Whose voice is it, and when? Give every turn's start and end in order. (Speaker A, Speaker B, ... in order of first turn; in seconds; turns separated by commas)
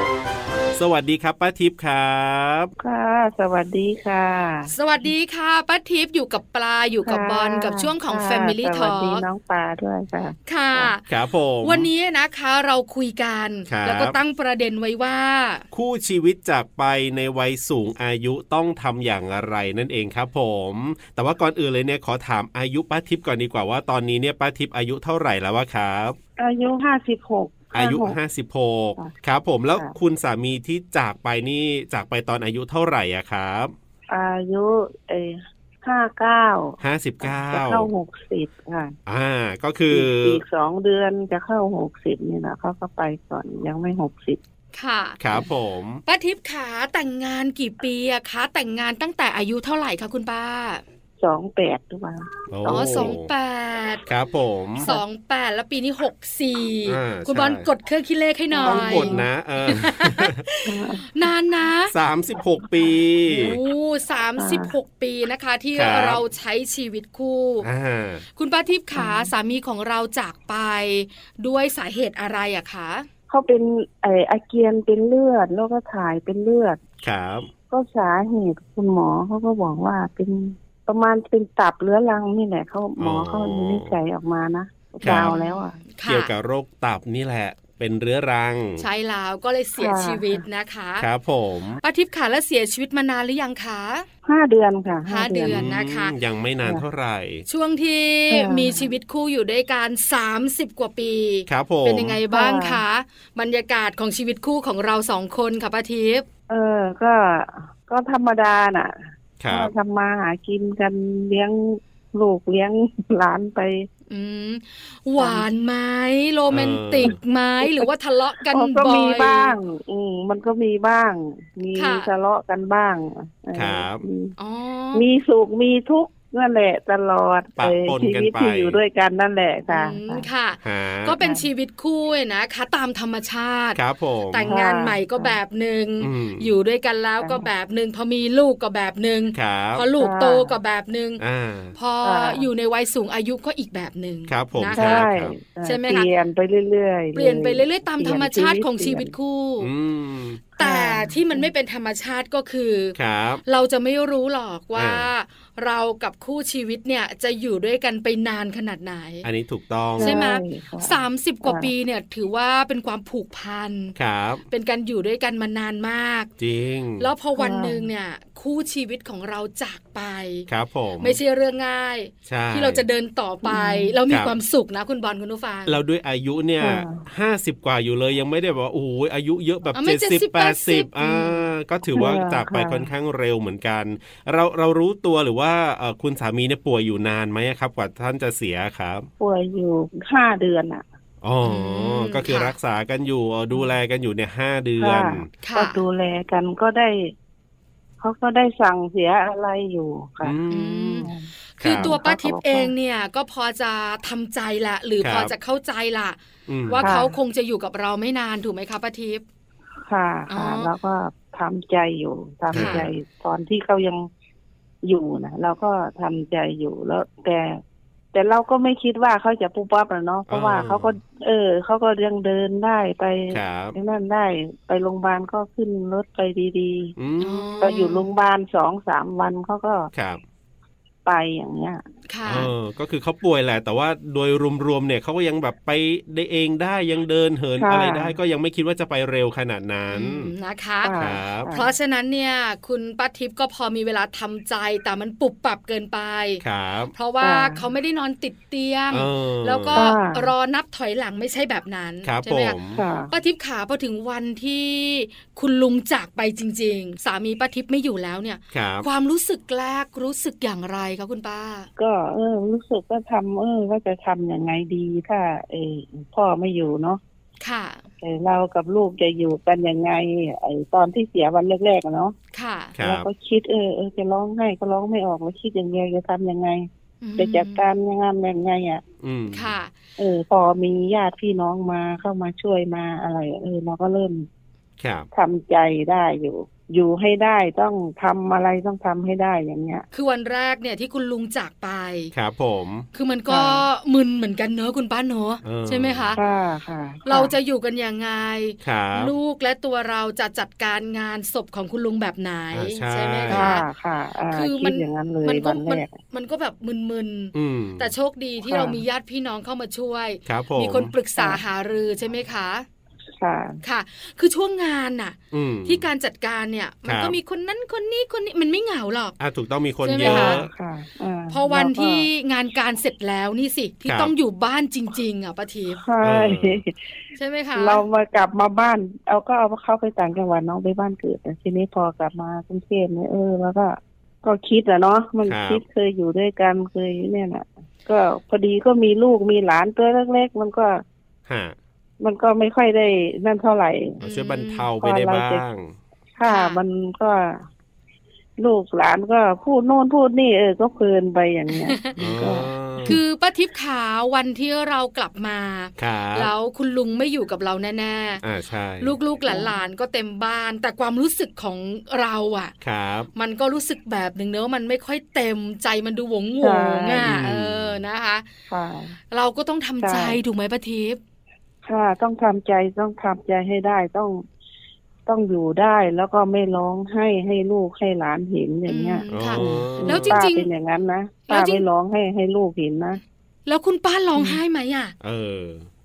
Speaker A: 0.7-2.7, Speaker B: 2.8-4.7, Speaker C: 4.7-9.3, Speaker B: 7.0-10.9, Speaker C: 10.5-11.1, Speaker A: 11.1-11.9, Speaker C: 11.6-15.7, Speaker A: 13.7-14.2, Speaker A: 15.7-26.2, Speaker B: 26.4-28.2, Speaker A: 27.7-33.7, Speaker B: 34.1-39.0, Speaker A: 36.8-37.9, Speaker A: 39.1-40.4, Speaker B: 39.9-44.4, Speaker C: 44.7-45.2, Speaker A: 45.2-46.0, Speaker C: 46.1-50.8, Speaker B: 51.2-53.1, Speaker A: 52.5-53.3, Speaker C: 52.7-54.0, Speaker A: 54.1-54.9, Speaker C: 54.8-61.9, Speaker A: 56.9-57.7, Speaker B: 58.5-59.3, Speaker A: 58.6-60.4, Speaker B: 60.6-61.0, Speaker A: 61.9-63.6, Speaker C: 63.3-67.7, Speaker B: 64.4-64.7, Speaker A: 65.7-66.2, Speaker A: 67.6-68.2, Speaker C: 68.4-73.1, Speaker B: 68.9-69.3, Speaker B: 73.3-76.8, Speaker A: 77.0-77.5, Speaker B: 77.7-85.8, Speaker A: 83.0-83.9, Speaker A: 85.0-85.3, Speaker C: 85.1-86.3, Speaker A: 86.0-88.8, Speaker C: 88.8-91.0, Speaker B: 89.8-90.4, Speaker A: 91.0-91.8, Speaker C: 91.8-94.1, Speaker B: 94.2-95.7, Speaker C: 95.1-96.1, Speaker A: 95.5-97.5, Speaker C: 97.5-106.2, Speaker B: 98.3-98.9, Speaker A: 101.5-102.2, Speaker B: 102.3-102.8, Speaker B: 106.5-108.9, Speaker A: 109.4-109.7, Speaker B: 109.5-113.9, Speaker C: 114.1-119.6, Speaker B: 115.2-115.5, Speaker A: 116.5-117.2, Speaker B: 117.1-117.9, Speaker B: 118.5-124.3, Speaker C: 121.8-122.1, Speaker A: 123.5-124.0, Speaker C: 124.4-125.0, Speaker B: 124.9-130.3, Speaker A: 127.6-128.8, Speaker C: 129.7-133.8, Speaker A: 130.6-131.2, Speaker B: 131.2-131.5, Speaker A: 133.8-134.5, Speaker C: 134.3-141.2, Speaker B: 134.4-135.4, Speaker A: 136.0-136.5, Speaker B: 137.2-137.5, Speaker A: 139.3-139.8, Speaker B: 140.0-140.5, Speaker A: 141.2-141.8, Speaker C: 141.8-145.1, Speaker B: 142.0-142.5, Speaker A: 144.3-145.3, Speaker B: 144.7-149.1, Speaker C: 145.6-146.1, Speaker C: 147.2-149.7, Speaker A: 149.6-150.4, Speaker B: 150.6-151.5, Speaker C: 150.6-152.9, Speaker A: 153.0-153.4, Speaker C: 153.5-159.3, Speaker A: 154.8-155.1, Speaker A: 159.2-160.2, Speaker B: 160.0-161.7, Speaker C: 160.0-164.0, Speaker A: 164.0-164.4, Speaker C: 164.5-166.3, Speaker A: 166.4-167.1, Speaker C: 167.0-170.5, Speaker B: 167.4-167.9, Speaker A: 170.5-171.2, Speaker C: 171.0-175.8, Speaker A: 172.3-172.8, Speaker B: 173.4-174.0, Speaker A: 174.1-174.3, Speaker A: 175.7-189.1, Speaker B: 176.6-177.0, Speaker C: 179.7-181.5, Speaker B: 181.9-182.9, Speaker B: 189.2-190.8, Speaker A: 191.2-195.3, Speaker C: 191.4-192.6, Speaker B: 194.8-197.1, Speaker C: 195.4-195.8, Speaker B: 198.0-200.4, Speaker A: 200.2-201.1, Speaker C: 200.5-206.2, Speaker B: 201.0-202.7, Speaker A: 201.6-201.9, Speaker A: 205.0-205.3, Speaker A: 206.5-206.9, Speaker C: 206.7-209.2, Speaker B: 206.8-207.1, Speaker B: 209.9-214.1, Speaker C: 210.3-210.7, Speaker A: 212.5-212.9, Speaker C: 212.5-212.8, Speaker B: 214.8-217.6, Speaker B: 218.1-226.9, Speaker A: 220.3-220.9, Speaker A: 223.3-223.8, Speaker A: 227.0-227.5, Speaker C: 227.2-228.1, Speaker B: 227.6-229.9, Speaker A: 229.9-230.2, Speaker B: 231.1-231.8, Speaker C: 232.1-232.5, Speaker A: 232.3-240.3, Speaker B: 237.6-238.2, Speaker C: 239.9-240.9, Speaker B: 240.8-241.7, Speaker A: 241.0-241.5, Speaker C: 241.5-246.4, Speaker A: 246.4-246.9, Speaker C: 246.9-252.6, Speaker B: 247.2-247.7, Speaker A: 248.9-249.8, Speaker B: 249.7-250.3, Speaker A: 252.0-252.8, Speaker B: 252.8-253.1, Speaker C: 253.1-261.7, Speaker A: 258.5-258.9, Speaker B: 261.8-267.0, Speaker C: 267.4-267.9, Speaker B: 268.0-272.1, Speaker C: 272.3-272.8, Speaker A: 272.8-273.1, Speaker B: 272.8-278.8, Speaker C: 277.0-277.6, Speaker A: 279.0-279.6, Speaker C: 279.3-279.7, Speaker B: 280.0-284.3, Speaker A: 284.8-285.1, Speaker B: 285.1-289.9, Speaker C: 289.9-292.1, Speaker A: 292.1-292.9, Speaker C: 292.9-296.2, Speaker B: 293.3-293.7, Speaker A: 295.4-296.2, Speaker B: 296.2-297.3, Speaker C: 297.1-303.6, Speaker A: 298.6-299.1, Speaker A: 302.5-303.5, Speaker B: 303.3-306.0, Speaker C: 304.3-312.7, Speaker A: 307.3-307.9, Speaker B: 308.5-308.8, Speaker A: 310.3-310.9, Speaker B: 313.2-313.6, Speaker C: 313.6-319.2, Speaker A: 315.3-315.9, Speaker A: 316.9-317.2, Speaker A: 319.2-320.5, Speaker C: 319.8-320.4, Speaker B: 320.0-322.1, Speaker C: 321.3-325.8, Speaker A: 323.9-324.1, Speaker B: 325.8-326.8, Speaker A: 326.0-326.6, Speaker C: 327.2-327.8, Speaker B: 327.6-340.8, Speaker A: 335.3-335.6, Speaker A: 341.3-341.6, Speaker B: 342.0-344.0, Speaker C: 344.0-344.6, Speaker A: 344.0-345.7, Speaker B: 344.8-345.4, Speaker B: 346.2-347.4, Speaker C: 346.2-346.6, Speaker B: 348.4-353.0, Speaker C: 351.5-351.9, Speaker A: 352.0-353.0, Speaker C: 352.9-358.2, Speaker A: 355.8-356.3, Speaker A: 358.2-358.9, Speaker C: 358.8-362.5, Speaker B: 359.3-359.5, Speaker A: 362.6-363.1, Speaker C: 363.1-368.3, Speaker B: 366.4-367.2, Speaker A: 367.0-367.8, Speaker B: 368.5-369.0, Speaker C: 369.1-371.0, Speaker B: 369.8-370.2, Speaker B: 371.6-374.2, Speaker B: 375.1-383.0, Speaker C: 378.7-380.5, Speaker A: 379.1-380.2, Speaker C: 381.3-381.6, Speaker C: 383.5-384.9, Speaker A: 385.0-385.7